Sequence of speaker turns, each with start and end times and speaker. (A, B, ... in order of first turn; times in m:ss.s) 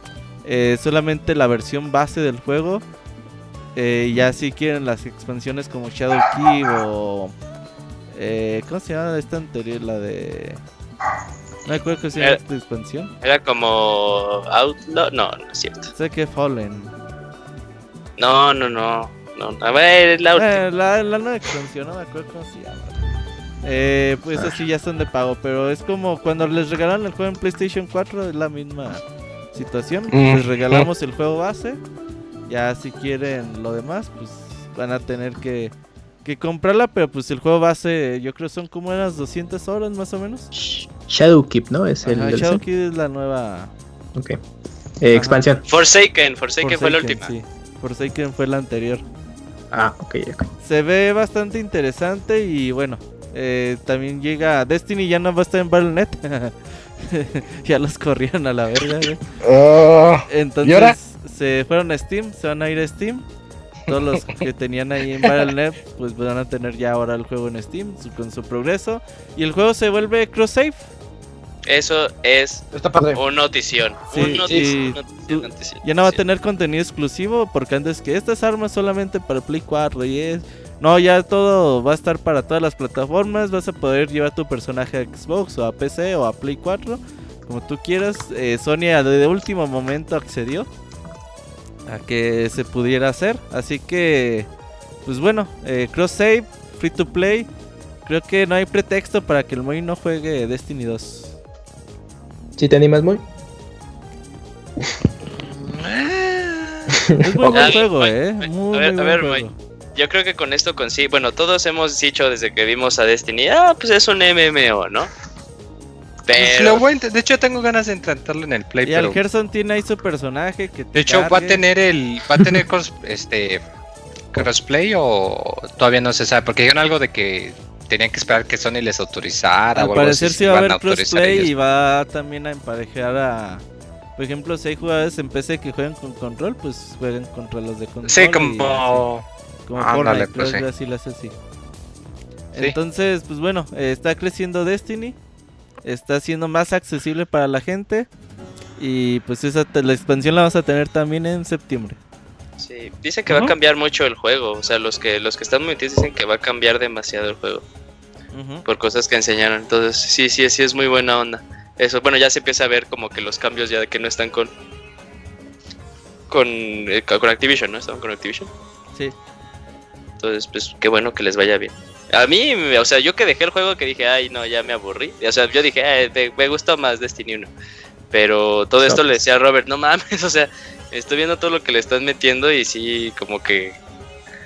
0:00.4-0:02.8 A
0:03.8-0:07.3 A
0:08.1-0:10.6 A
0:11.7-0:13.1 A
0:13.2-0:15.9 B
0:15.9-0:16.9 A
0:18.2-0:20.6 B
0:20.4-0:22.9 A
0:23.6-0:29.0 A
0:29.5-0:31.8 A
0:30.1-0:30.9 C
0:32.5-0:35.7 A
0:36.2-0:40.5 A
0:40.6-0:42.6 D
0:42.0-0:43.7 A
0:45.0-0:45.6 D
0:45.1-0:45.5 A
0:45.7-0:47.3 B
0:46.6-0:49.0 A
0:49.7-0:50.5 D
0:50.6-0:59.2 A
0:59.4-1:00.9 C
1:00.3-1:03.2 A
1:03.9-1:10.8 A
1:11.7-1:16.2 B
1:12.7-1:13.2 C
1:14.1-1:30.7 A
1:14.1-1:14.7 C
1:31.9-1:34.5 A
1:35.0-1:37.5 A
1:38.0-1:41.3 A
1:42.6-1:43.2 D
1:45.6-1:46.7 E
1:46.9-1:47.8 D
1:47.2-1:49.5 A
1:47.5-1:55.1 B
1:56.3-1:56.8 B
1:56.3-1:59.2 E
1:58.8-2:01.6 A
2:00.9-2:03.6 E
2:04.3-2:11.5 E
2:09.7-2:13.6 A
2:14.2-2:19.0 A
2:18.0-2:19.2 E
2:19.6-2:21.3 A
2:19.8-2:20.6 E
2:22.5-2:25.2 A
2:25.8-2:28.1 A
2:28.8-2:32.0 A
2:32.6-2:37.6 B
2:38.3-2:38.6 A
2:38.6-2:44.5 B
2:46.3-2:48.5 B
2:50.2-2:57.5 B
2:58.1-3:03.8 B
2:58.8-2:59.2 D